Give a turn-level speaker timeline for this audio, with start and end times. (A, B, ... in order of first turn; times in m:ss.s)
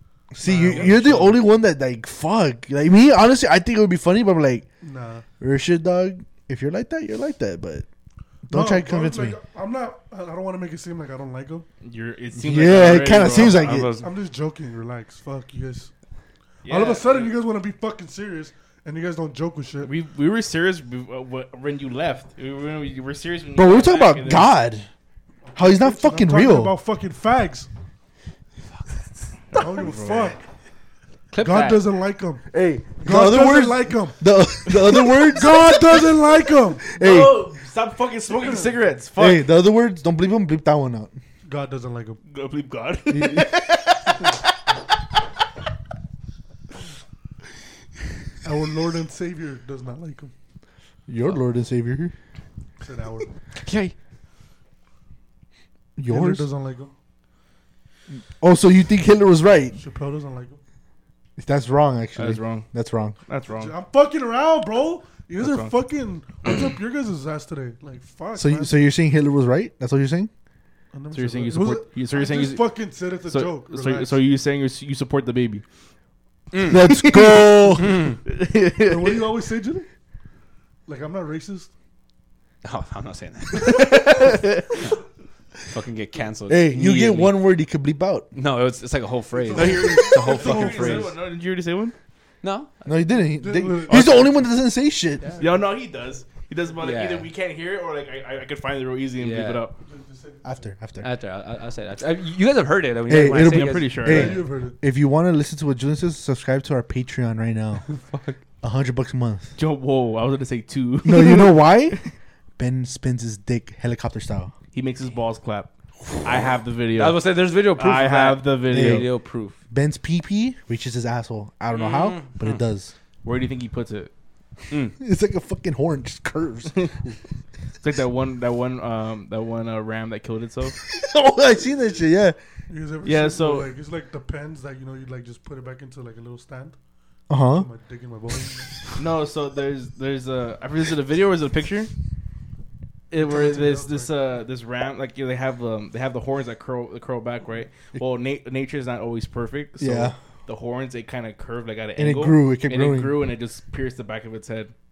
0:00.3-0:04.6 A
0:00.4-0:01.4 B
0:00.7-0:01.0 C
0:04.8-0:05.2 B
0:05.4-0:07.8 A
0:08.5-0:09.4 A
0:08.5-0:11.6 B
0:11.8-0:13.9 C
0:12.4-0:13.9 A
0:13.2-0:14.1 D
0:13.9-0:15.9 B
0:16.6-0:17.3 C
0:16.6-0:19.9 B
0:19.8-0:24.5 C
0:23.5-0:24.9 A
0:25.5-0:27.7 B
0:25.6-0:26.7 A
0:29.5-0:30.4 C
0:29.5-0:30.4 B
0:31.3-0:31.8 D
0:31.4-0:32.4 B
0:32.5-0:36.2 A
0:33.0-0:36.8 B
0:36.9-0:37.4 A
0:37.0-0:39.4 C
0:39.2-0:41.1 A
0:41.4-0:42.2 B
0:42.3-0:44.4 C
0:43.1-0:43.5 A
0:48.4-0:50.3 B
0:51.1-0:52.1 A
0:52.8-0:53.3 B
0:53.6-0:53.9 D
0:56.0-0:56.5 A
0:56.1-0:56.9 B
0:58.1-0:59.8 A
0:59.8-1:00.6 B
1:01.4-1:03.2 A
1:02.2-1:02.7 C
1:03.3-1:03.7 C
1:03.5-1:08.7 B
1:05.4-1:05.7 C
1:08.3-1:10.3 A
1:10.9-1:14.2 B
1:11.1-1:15.6 C
1:16.5-1:16.8 D
1:16.7-1:18.0 A
1:16.9-1:19.2 C
1:17.8-1:18.2 D
1:18.8-1:19.9 B
1:20.8-1:21.7 B
1:22.6-1:25.0 D
1:23.6-1:24.8 C
1:25.7-1:27.4 D
1:26.5-1:28.3 A
1:28.3-1:31.2 D
1:29.4-1:31.1 B
1:29.5-1:31.9 C
1:32.4-1:32.9 D
1:32.8-1:35.3 A
1:33.4-1:34.4 B
1:35.4-1:39.7 C
1:36.8-1:37.3 D
1:39.2-1:39.6 D
1:39.8-1:40.7 B
1:40.4-1:41.1 A
1:41.0-1:44.2 D
1:43.1-1:47.8 A
1:43.4-1:44.4 C
1:44.0-1:44.8 B
1:47.9-1:48.4 D
1:48.6-1:49.5 A
1:49.6-1:52.1 C
1:51.0-1:52.0 A
1:52.6-1:54.5 A
1:54.7-1:57.2 C
1:57.0-1:59.6 D
1:57.7-1:59.1 C
1:58.7-1:59.1 A
1:59.7-2:02.9 A
2:01.7-2:02.6 D
2:03.2-2:04.1 C
2:04.7-2:05.0 D
2:05.0-2:06.9 A
2:07.8-2:10.8 C
2:10.8-2:12.4 A
2:12.7-2:16.8 B
2:13.0-2:13.7 C
2:17.3-2:17.7 A
2:17.5-2:18.8 B
2:19.0-2:21.9 C
2:23.1-2:34.7 C
2:23.2-2:24.1 B
2:29.8-2:30.2 A
2:32.0-2:33.2 A